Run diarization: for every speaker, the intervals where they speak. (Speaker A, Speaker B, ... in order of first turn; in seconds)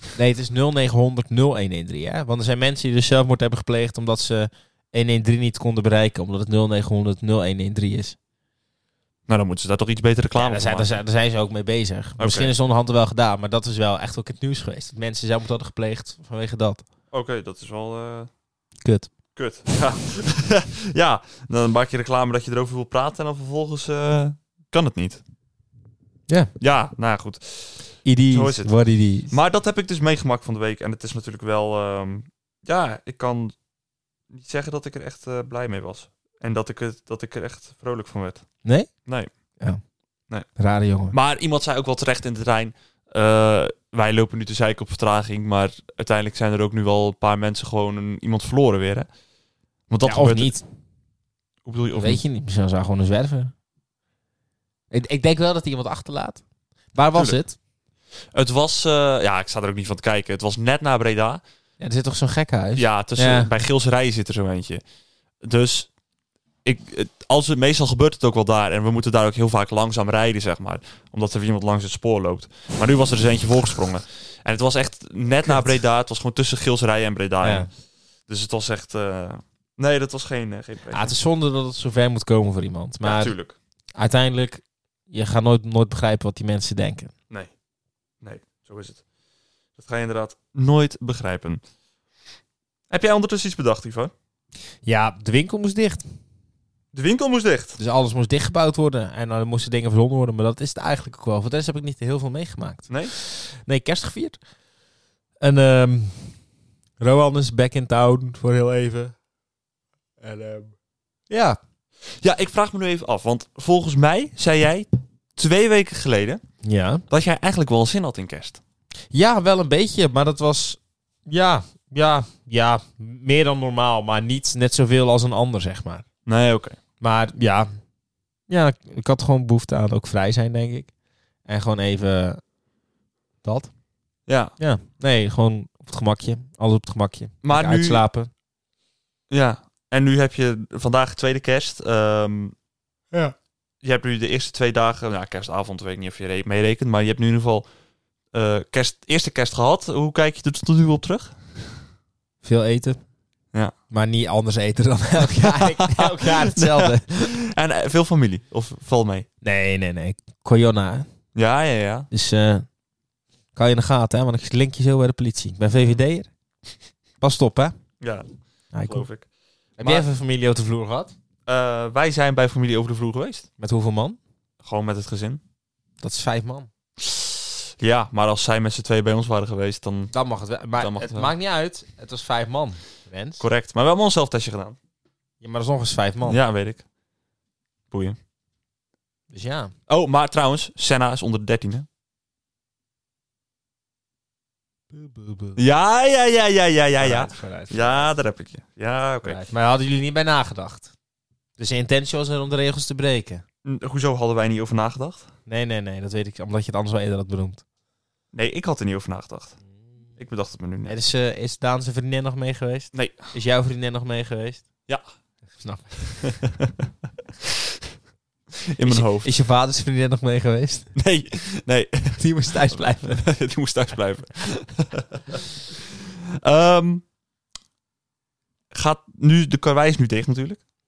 Speaker A: 0.1-8.2, 10.3-16.8, 18.8-19.1, 28.0-29.3, 38.6-38.9, 40.6-41.1, 50.0-50.6, 51.9-53.5, 54.9-56.4, 56.9-57.5, 61.8-63.5, 77.4-77.7, 80.9-83.3, 84.0-87.1, 94.8-96.0, 97.8-104.4, 105.4-106.3, 107.0-109.2, 110.2-110.7, 111.3-111.6, 116.6-117.0, 119.1-126.0, 127.0-127.7, 128.5-130.9, 131.4-132.4, 133.4-133.7, 134.6-138.3, 152.4-153.0, 153.9-157.3, 159.4-161.1, 162.1-162.7, 163.5-166.3, 167.2-167.8, 168.7-169.1, 169.8-171.1, 173.6-174.2, 176.0-176.7, 180.1-183.4, 185.4-186.4, 189.3-189.7, 194.9-195.6, 197.0-198.1, 199.2-200.9, 201.6-203.4, 205.5-207.6, 210.8-214.7, 215.6-216.3, 218.8-220.9, 222.2-223.2
Speaker B: 9.3-11.0, 12.2-12.5, 17.1-18.3, 19.4-25.2, 26.6-28.7, 29.3-33.5, 34.3-38.5, 41.1-49.1, 49.9-50.5, 51.6-52.2, 58.3-61.4, 62.8-64.8, 65.4-65.9, 66.6-77.7, 78.3-81.1, 83.0-83.5, 88.2-89.0, 89.8-91.6, 92.9-94.1, 96.9-97.8, 102.9-103.1, 112.2-116.4, 117.1-118.6, 126.2-126.8, 134.3-134.5, 137.4-138.0, 139.3-142.5, 143.8-147.6, 148.3-151.4, 155.3-159.2, 161.3-162.1, 168.0-168.2, 168.8-169.2, 169.8-170.1, 171.5-173.4, 174.6-175.4, 177.0-180.1, 180.8-181.3, 183.4-184.8, 186.2-186.8, 187.9-188.2, 189.9-191.9, 195.6-199.4, 203.6-205.2, 208.3-209.5, 210.2-210.9, 216.2-216.7, 217.4-217.8, 218.7-219.3, 220.9-227.0, 228.7-230.6